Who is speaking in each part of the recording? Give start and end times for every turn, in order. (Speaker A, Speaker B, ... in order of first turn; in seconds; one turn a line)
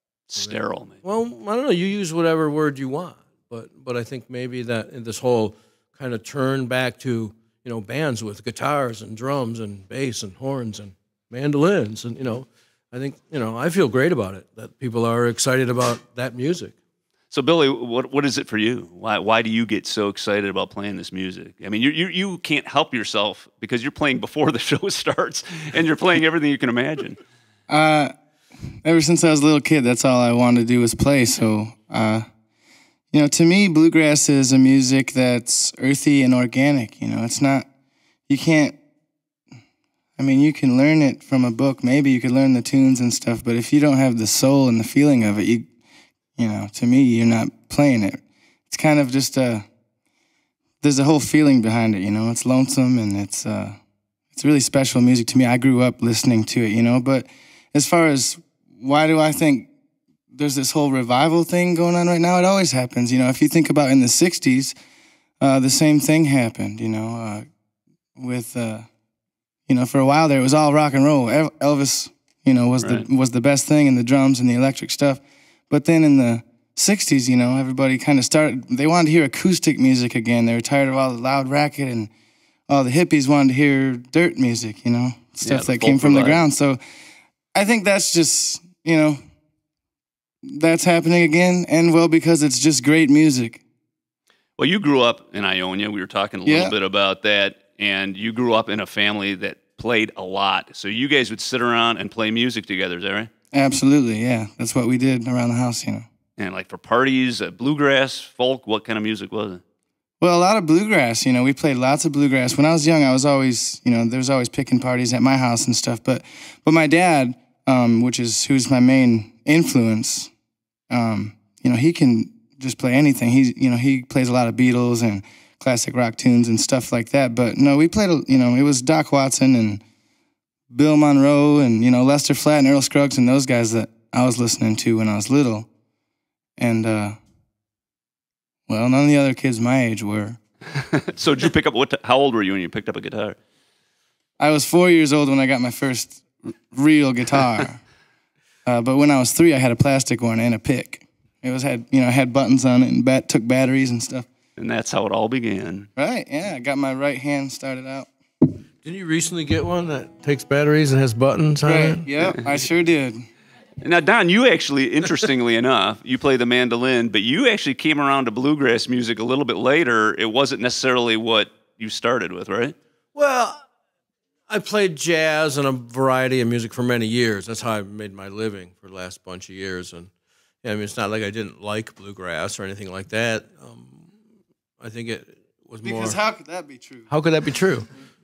Speaker A: 0.3-1.0
Speaker B: 0.4-16.8
Speaker A: 17.3-27.2
Speaker C: 27.7-28.1
Speaker C: 28.8-32.2
Speaker C: 33.1-37.7
Speaker C: 38.3-38.8
Speaker C: 40.2-45.7
Speaker C: 46.4-49.7
Speaker C: 50.8-53.8
Speaker C: 54.3-59.7
Speaker C: 60.3-64.8
Speaker C: 65.4-67.5
Speaker C: 68.2-68.9
Speaker C: 69.7-82.1
Speaker A: 72.8-73.1
Speaker C: 82.7-86.8
Speaker A: 85.4-86.4
Speaker C: 87.5-89.2
Speaker C: 90.5-93.6
Speaker A: 94.6-103.3
Speaker C: 96.4-96.8
Speaker C: 103.5-106.1
Speaker A: 106.4-109.6
Speaker C: 110.2-120.3
Speaker C: 120.9-129.8
Speaker C: 130.7-135.7
Speaker C: 136.6-137.2
Speaker C: 138.7-140.4
Speaker A: 140.8-143.4
Speaker C: 144.4-147.8
Speaker C: 148.7-154.3
Speaker A: 154.6-155.9
Speaker C: 156.0-158.1
Speaker B: 158.8-162.1
Speaker C: 161.6-163.2
Speaker A: 163.8-172.8
Speaker B: 173.2-173.6
Speaker B: 174.5-180.1
Speaker B: 180.6-184.1
Speaker B: 184.8-186.2
Speaker C: 185.8-187.1
Speaker B: 187.1-187.9